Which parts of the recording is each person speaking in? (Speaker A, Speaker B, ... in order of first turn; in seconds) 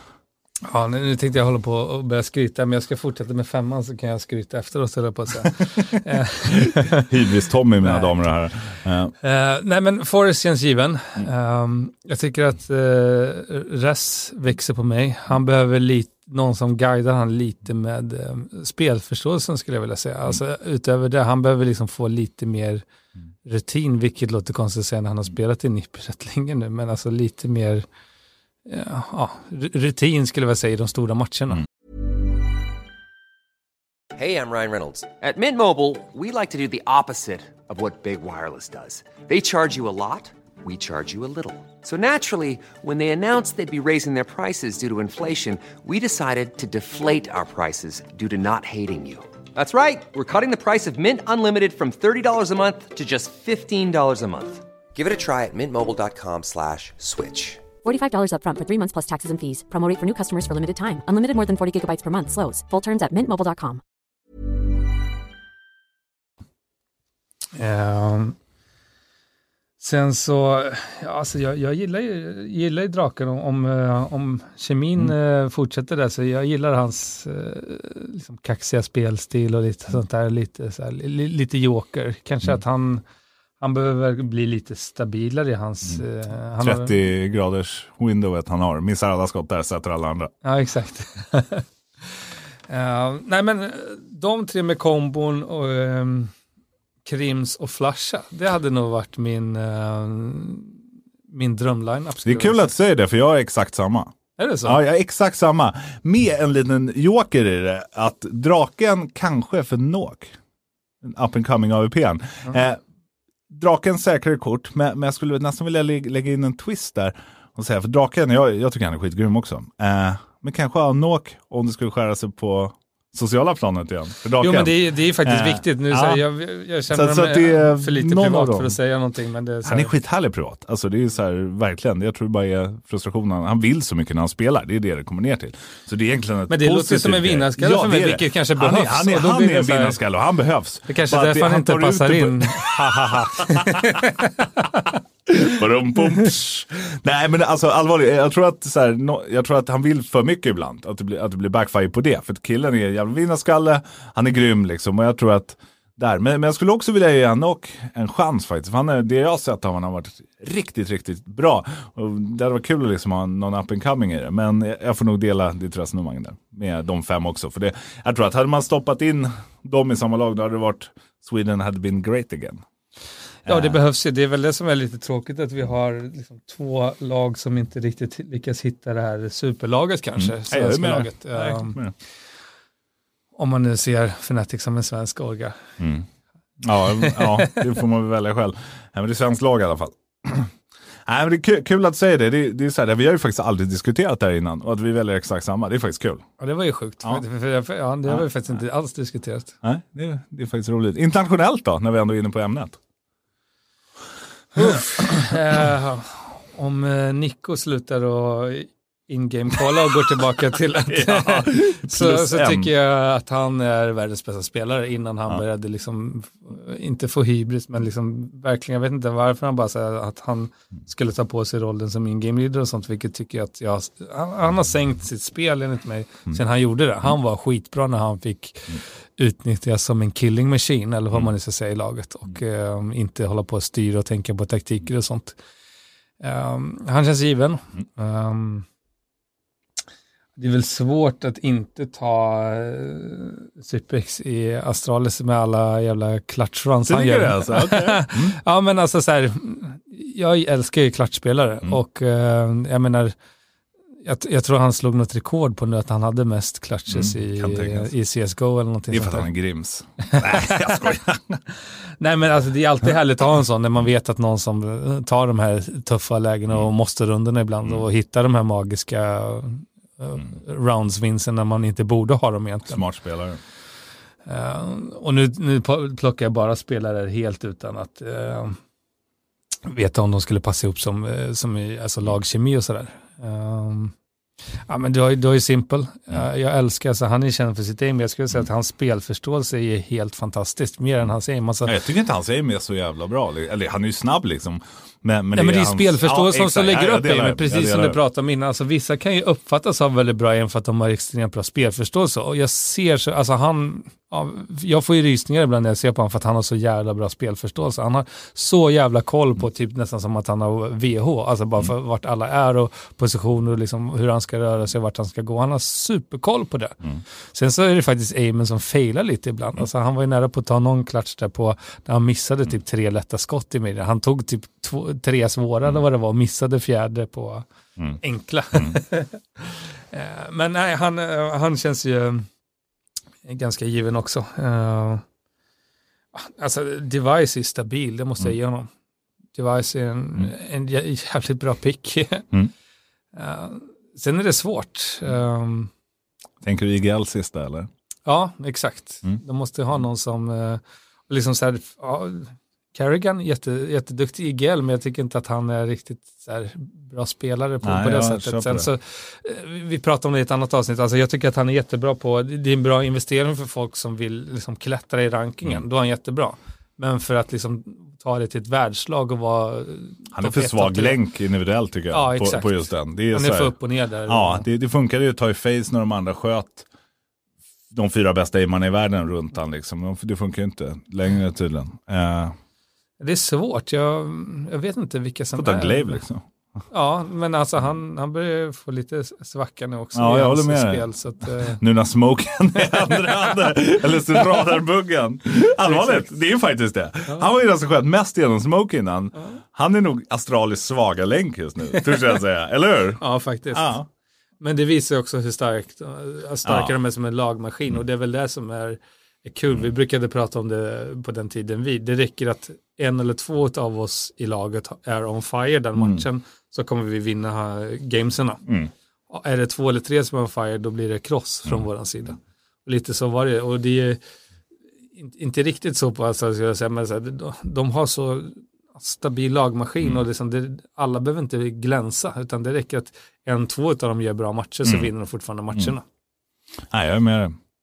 Speaker A: 0.6-7.1, 7.8-8.1, 9.2-22.8, 23.4-27.9, 28.6-31.6, 67.5-68.3, 69.8-83.0, 83.6-87.0, 90.4-96.3, 97.0-102.7, 104.4-104.8, 124.4-129.9, 136.5-140.0, 140.9-144.9, 173.4-181.8, 183.3-185.6, 187.0-187.6, 196.4-199.6, 204.6-235.4, 236.2-238.7, 240.4-253.2, 254.0-259.3, 260.1-260.9, 262.0-272.8, 274.2-278.6, 279.6-283.9, 284.7-291.7, 295.3-327.5, 328.0-332.3, 333.2-335.0, 336.1-338.7, 339.3-342.3, 343.1-345.7, 348.1-371.0, 371.9-374.4, 383.0-386.0, 386.7-391.6, 392.7-394.5, 395.6-396.1, 401.8-402.0, 403.0-403.8, 404.4-418.4, 419.1-424.0, 424.9-435.8
Speaker B: 6.5-9.1, 86.6-90.3, 102.2-104.1, 104.6-110.3, 111.0-112.8, 113.5-126.2, 126.9-128.7, 129.6-144.0, 145.3-172.6, 173.4-173.8, 180.2-181.9, 185.8-186.1, 186.6-190.5, 191.1-196.2, 199.6-202.8, 204.6-204.9, 210.9-212.7, 246.8-248.4, 256.9-257.9, 258.9-261.4, 272.6-273.4, 291.6-298.0, 328.5-328.8, 346.4-347.7, 357.6-358.7, 370.1-373.5, 374.1-376.6, 377.7-382.4, 385.4-386.2, 389.9-390.9, 391.4-403.9, 406.4-406.7, 415.8-416.0, 436.7-437.4
Speaker C: 34.1-57.6
Speaker D: 57.8-63.8